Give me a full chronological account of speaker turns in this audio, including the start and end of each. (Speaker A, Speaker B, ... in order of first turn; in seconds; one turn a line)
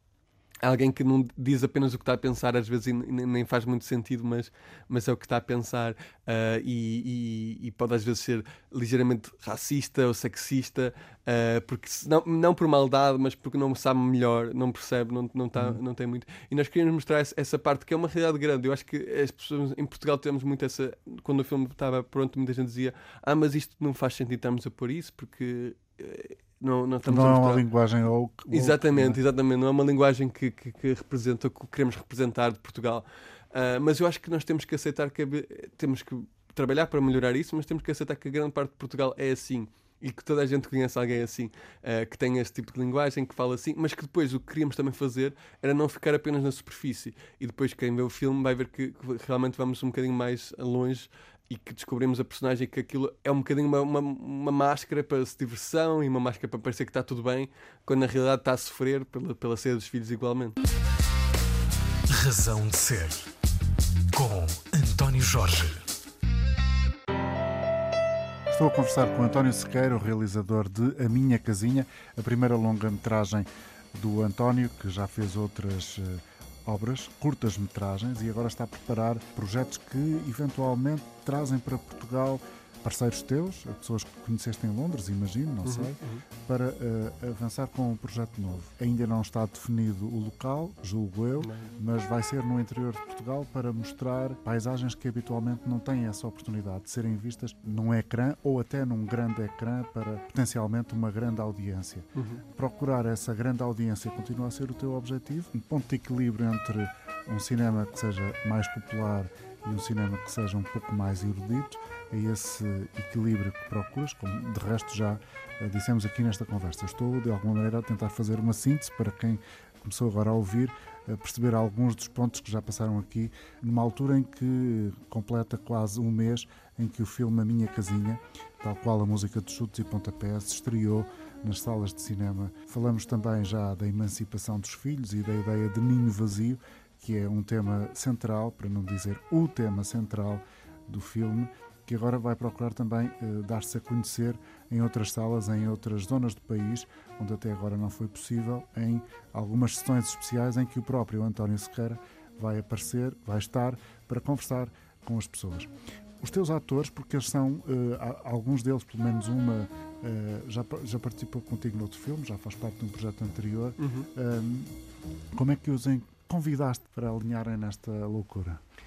Speaker A: 0.6-27.6
Speaker B: 27.0-29.2
Speaker A: 28.5-60.6
Speaker C: 62.1-63.3
Speaker C: 64.1-65.8
Speaker B: 68.5-164.8
Speaker A: 85.6-86.2
Speaker A: 91.4-91.7
Speaker A: 102.1-102.4
Speaker A: 163.8-164.1
Speaker B: 165.3-168.6